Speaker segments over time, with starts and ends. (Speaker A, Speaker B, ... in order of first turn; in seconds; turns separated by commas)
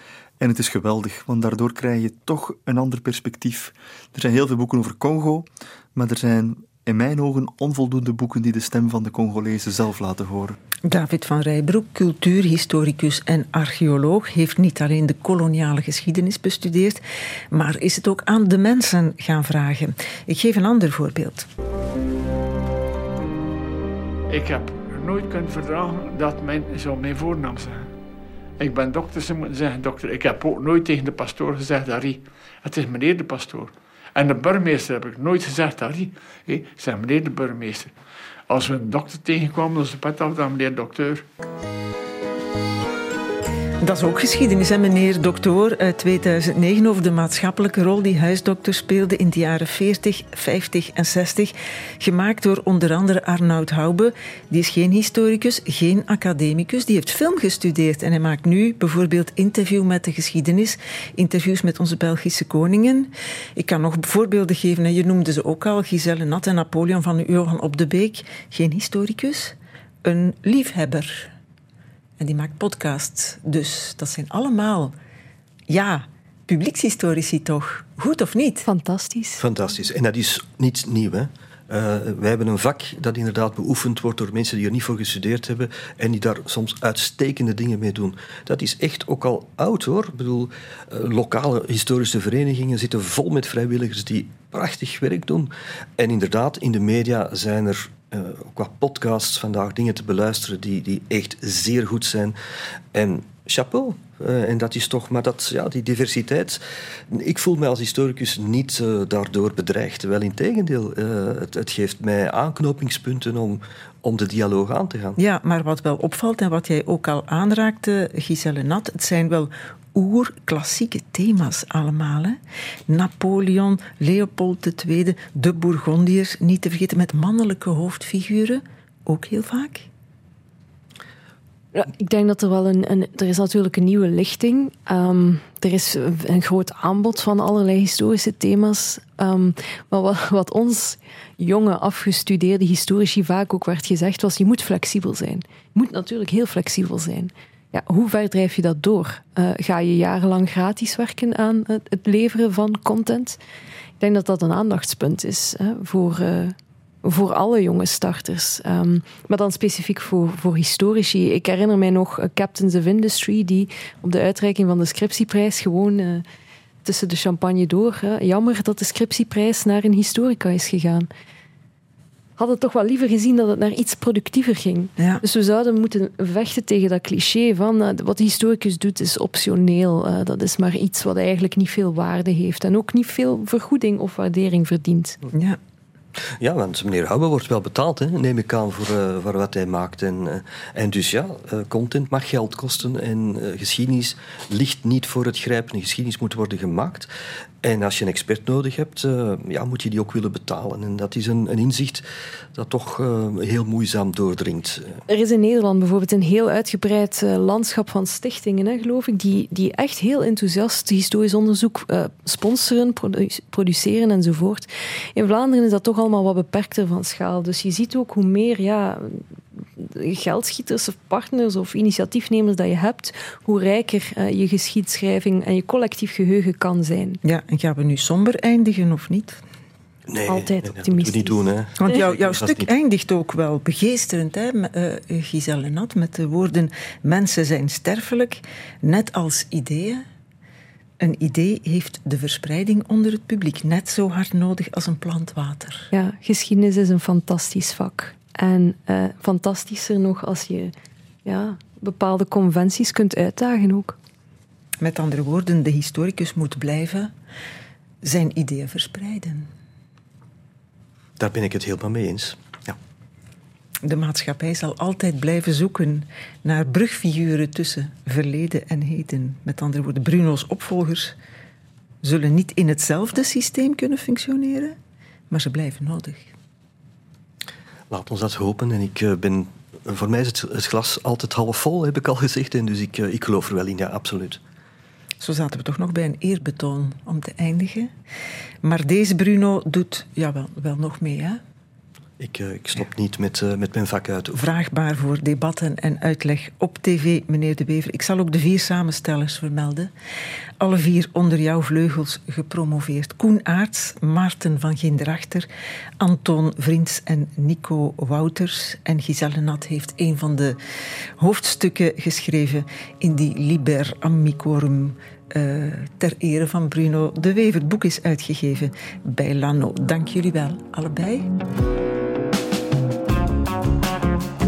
Speaker A: 0.4-10.6, Speaker B: 10.9-17.0, Speaker B: 17.5-21.5, Speaker C: 24.3-27.9, Speaker C: 28.6-37.9, Speaker C: 38.5-41.2, Speaker B: 43.8-71.3, Speaker B: 72.2-75.0, Speaker B: 75.7-78.7, Speaker D: 78.7-79.4, Speaker E: 79.4-102.4, Speaker E: 102.9-115.2, Speaker B: 115.2-129.9, Speaker D: 131.7-153.4, Speaker D: 154.0-166.2, Speaker D: 166.8-171.1, Speaker D: 172.4-185.2, Speaker B: 185.3-185.6, Speaker E: 186.4-197.1, Speaker E: 197.6-205.0, Speaker D: 205.1-227.2, Speaker B: 227.2-229.4, Speaker E: 230.1-232.7, Speaker D: 230.3-231.4, Speaker B: 231.8-240.0, Speaker B: 241.0-245.9, Speaker D: 245.9-250.7, Speaker D: 251.2-254.0, Speaker B: 254.8-257.1, Speaker B: 258.0-259.5, Speaker E: 261.2-262.8, Speaker B: 263.8-271.1, Speaker B: 272.0-274.8, Speaker B: 275.3-276.3, Speaker E: 277.9-284.4, Speaker B: 285.2-287.9, Speaker B: 288.6-291.4, Speaker E: 292.2-294.4, Speaker B: 294.3-299.9, Speaker B: 300.6-305.5, Speaker B: 306.0-310.6, Speaker B: 311.2-321.3